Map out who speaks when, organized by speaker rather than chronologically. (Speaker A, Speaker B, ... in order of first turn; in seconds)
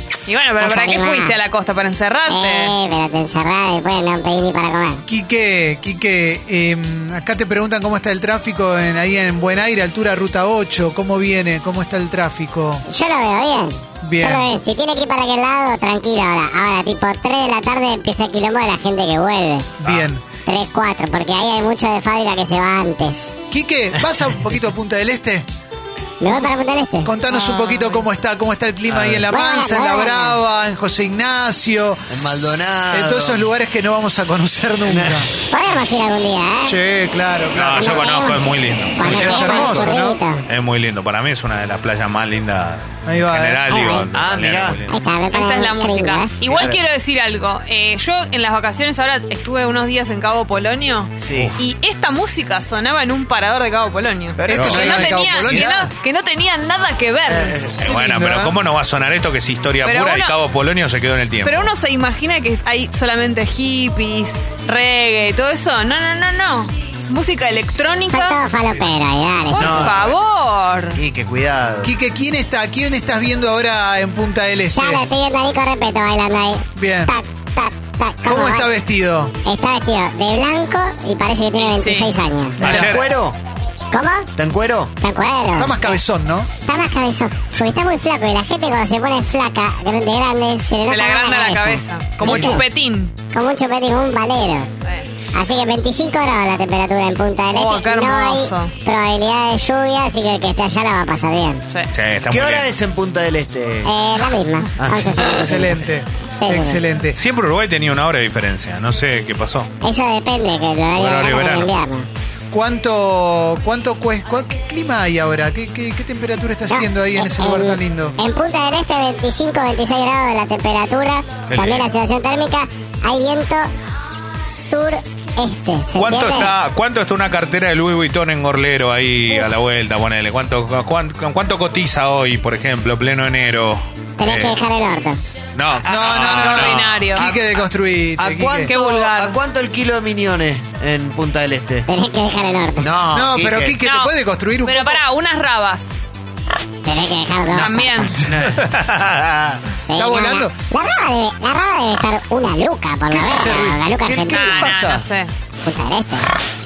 Speaker A: 0.2-2.7, 27.3-28.0, 45.3-57.6, 59.8-60.4, 61.4-68.4, 69.5-71.0, 81.5-82.2, 90.8-93.1, 97.5-98.7, 136.3-137.2, 138.7-139.4, 143.8-145.9, 147.5-148.2, 154.3-155.3
Speaker B: 0.6-1.4, 2.3-5.0, 12.9-19.7, 20.4-23.3, 26.2-27.1, 29.3-30.4, 35.5-36.8, 37.8-40.5, 43.6-44.1, 44.9-46.4, 68.0-69.8, 74.6-78.7, 79.4-82.7, 83.9-84.3, 85.0-86.0, 86.6-92.6, 93.3-94.7, 95.3-101.6, 103.8-105.8, 106.4-106.8, 109.8-112.1, 116.7-123.7, 124.4-126.5, 134.2-135.2, 141.9-142.9, 146.8-148.2, 149.8-154.7, 155.6-156.3
Speaker C: 5.0-12.8, 14.0-14.5, 19.8-20.2, 23.5-25.5, 27.0-32.3, 32.9-35.3, 36.6-38.1, 39.0-40.2, 43.0-43.6, 54.5-55.9, 71.8-75.0, 76.7-77.1, 78.2-79.3, 82.6-83.0, 85.5-86.5, 105.2-107.2, 112.5-118.2, 135.9-138.8, 143.1-145.0, 149.9-150.6, 153.1-153.9
Speaker D: 19.8-20.1, 37.5-39.1, 40.5-45.0, 51.3-51.6, 54.5-54.8, 57.8-61.7, 82.6-83.0, 101.9-102.7, 107.2-109.7, 110.9-111.7, 121.5-121.9, 125.9-134.6, 135.5-137.1
Speaker E: 28.9-29.2, 32.1-33.4, 34.9-35.3, 39.0-40.0, 44.1-44.8, 46.5-46.8, 51.2-51.6, 54.4-55.9, 57.2-58.6, 69.6-70.1, 70.9-71.9, 82.6-83.4, 84.3-84.9, 92.2-92.6, 102.3-104.0, 104.8-105.3, 135.8-136.2, 137.2-137.6, 138.2-141.9, 142.8-143.8, 148.2-149.6, 154.0-155.1